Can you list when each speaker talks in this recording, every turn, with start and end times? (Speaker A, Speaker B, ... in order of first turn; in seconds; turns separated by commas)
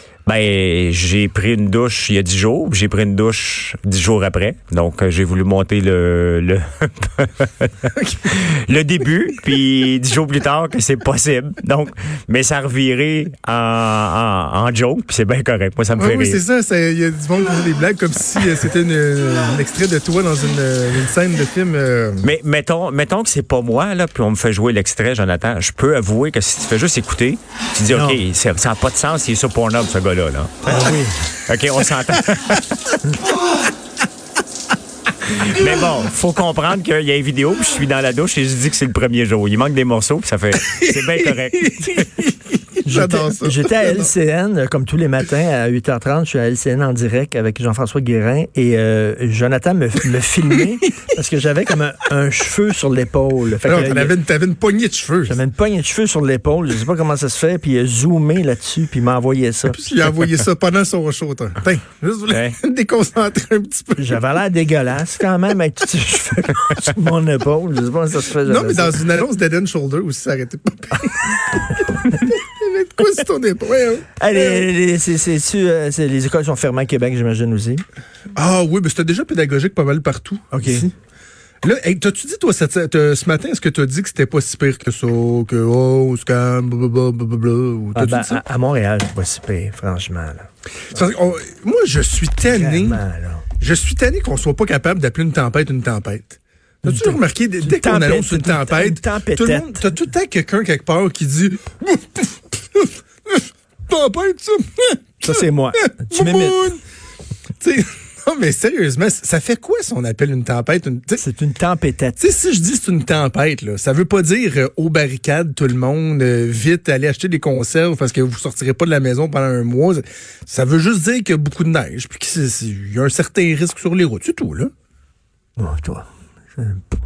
Speaker A: 0.3-16.4, Speaker B: 16.0-22.3, Speaker A: 22.2-30.7, Speaker C: 27.9-28.2, Speaker C: 30.6-31.2, Speaker A: 31.4-33.0, Speaker A: 35.2-42.1, Speaker B: 41.7-42.2, Speaker B: 42.8-44.1, Speaker C: 42.9-54.1, Speaker B: 53.6-55.4, Speaker C: 55.3-59.9, Speaker B: 59.7-64.2, Speaker A: 62.3-62.6, Speaker C: 64.0-69.0, Speaker B: 68.4-74.7, Speaker C: 74.2-77.8, Speaker B: 78.3-80.9, Speaker C: 80.5-80.9, Speaker B: 81.6-88.4, Speaker C: 88.0-91.0, Speaker B: 90.9-93.0, Speaker C: 92.5-93.5, Speaker B: 93.6-106.8, Speaker C: 96.8-99.9, Speaker C: 105.2-106.6, Speaker B: 107.6-111.2, Speaker C: 111.2-112.2, Speaker B: 112.2-124.7, Speaker C: 125.6-126.1, Speaker C: 126.6-126.8